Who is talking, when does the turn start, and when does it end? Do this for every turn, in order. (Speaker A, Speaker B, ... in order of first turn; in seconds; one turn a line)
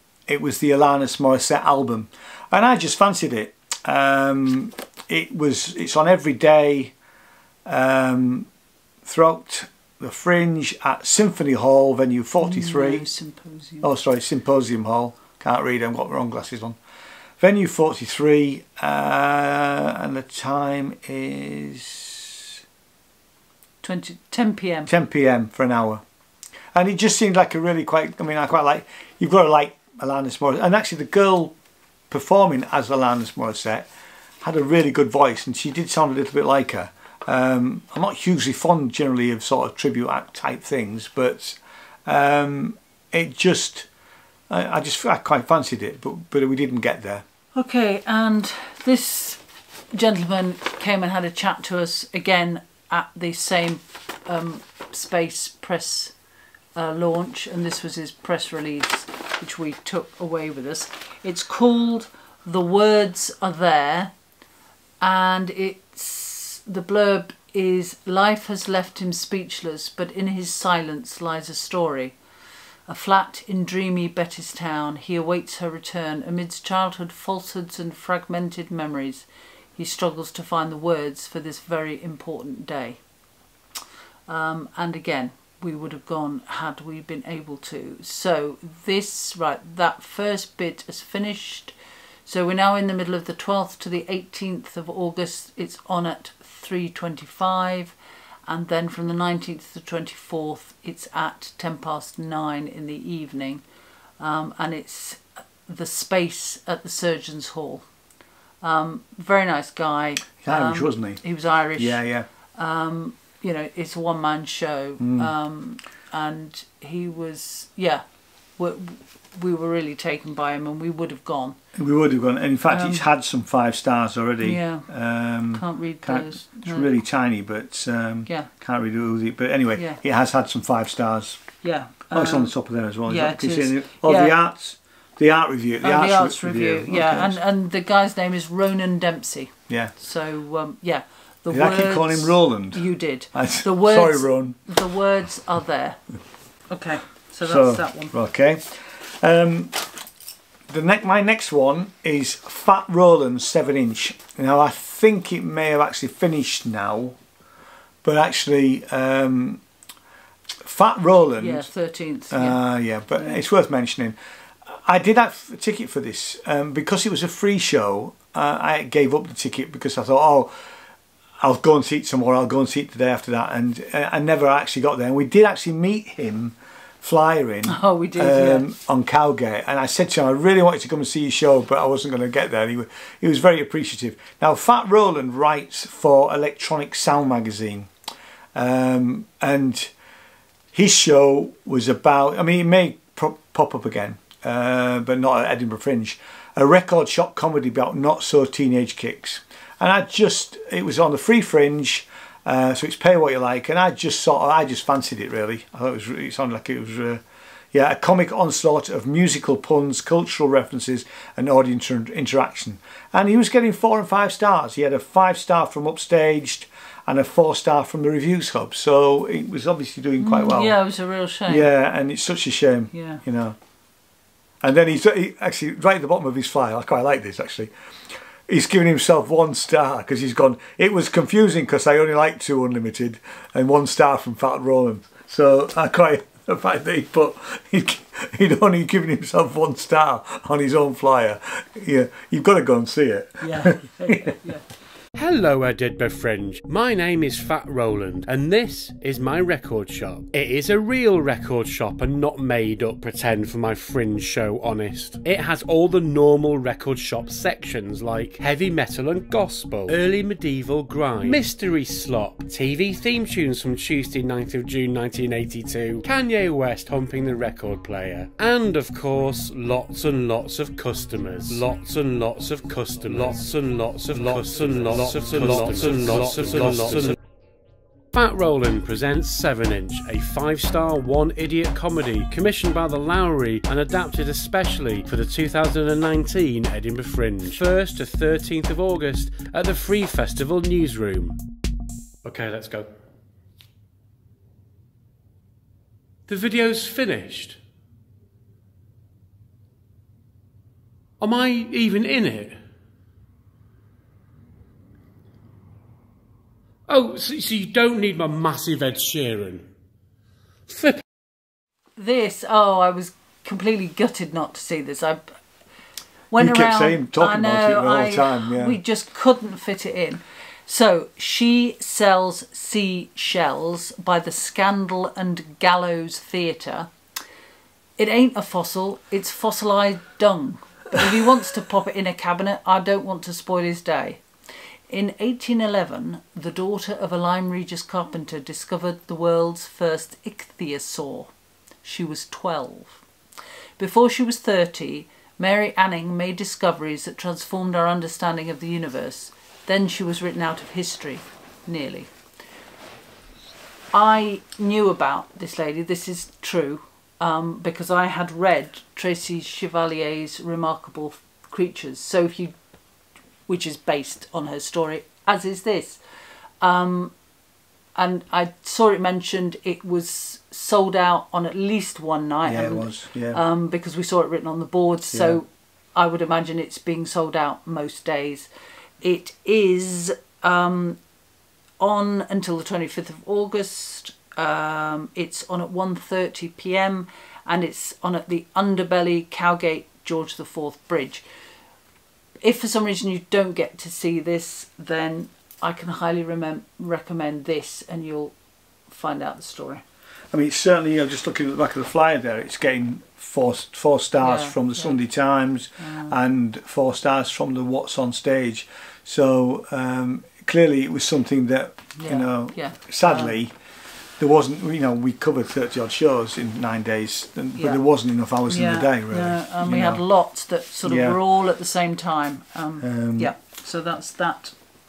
Speaker A: 0.3-6.9
Speaker A: 7.7-8.5
Speaker A: 9.0-13.1
Speaker B: 12.4-13.9
Speaker A: 13.8-16.8
Speaker A: 17.4-22.4
Speaker B: 23.8-24.9
Speaker A: 24.9-26.0
Speaker A: 26.7-31.5
Speaker A: 32.1-33.9
Speaker A: 34.4-43.9
Speaker A: 44.5-47.2
Speaker B: 47.5-49.4
Speaker B: 49.9-56.1
Speaker B: 56.7-64.1
Speaker B: 65.0-72.2
Speaker B: 72.9-83.0
Speaker B: 84.3-91.7
Speaker B: 92.2-97.9
Speaker B: 98.5-103.6
Speaker B: 104.2-107.8
Speaker B: 108.6-118.0
Speaker A: 110.4-111.2
Speaker A: 111.8-112.3
Speaker A: 115.0-115.3
Speaker B: 118.5-121.6
Speaker A: 121.7-131.5
Speaker B: 122.7-123.0
Speaker B: 124.4-124.9
Speaker B: 125.5-126.9
Speaker B: 131.6-132.5
Speaker A: 132.1-137.4
Speaker B: 133.0-134.4
Speaker B: 135.8-146.0
Speaker A: 141.5-144.6
Speaker B: 146.7-148.1
Speaker A: 147.4-149.8
Speaker A: 150.7-157.2
Speaker A: 158.0-159.6
Speaker A: 160.6-161.7
Speaker B: 161.4-162.6
Speaker A: 162.3-164.2
Speaker A: 164.7-170.5
Speaker A: 171.4-187.9
Speaker B: 177.7-178.7
Speaker A: 188.5-189.9
Speaker A: 190.7-220.8
Speaker B: 220.2-221.7
Speaker A: 221.5-223.6
Speaker B: 222.9-223.2
Speaker A: 224.6-227.7
Speaker A: 228.5-244.3
Speaker B: 243.4-244.6
Speaker C: 245.1-277.2
Speaker C: 278.1-291.4
Speaker C: 292.2-292.9
Speaker C: 296.3-297.6
Speaker C: 301.2-302.6
Speaker C: 306.9-309.7
Speaker C: 310.7-311.0
Speaker B: 312.0-315.2
Speaker B: 316.3-326.9
Speaker A: 316.4-318.8
Speaker B: 328.0-334.2
Speaker B: 334.9-341.3
Speaker B: 341.8-343.0
Speaker B: 343.8-352.1
Speaker B: 353.9-362.5
Speaker B: 363.5-366.0
Speaker B: 366.6-367.1
Speaker B: 367.9-378.5
Speaker A: 372.4-373.4
Speaker A: 375.1-375.4
Speaker B: 379.0-381.0
Speaker B: 381.8-391.2
Speaker B: 392.4-398.3
Speaker B: 398.9-399.8
Speaker A: 400.3-413.5
Speaker B: 404.2-405.0
Speaker B: 405.8-406.1
Speaker B: 412.0-413.4
Speaker A: 414.2-420.0
Speaker B: 417.6-417.8
Speaker B: 418.5-424.5
Speaker A: 420.9-421.2
Speaker A: 422.8-423.3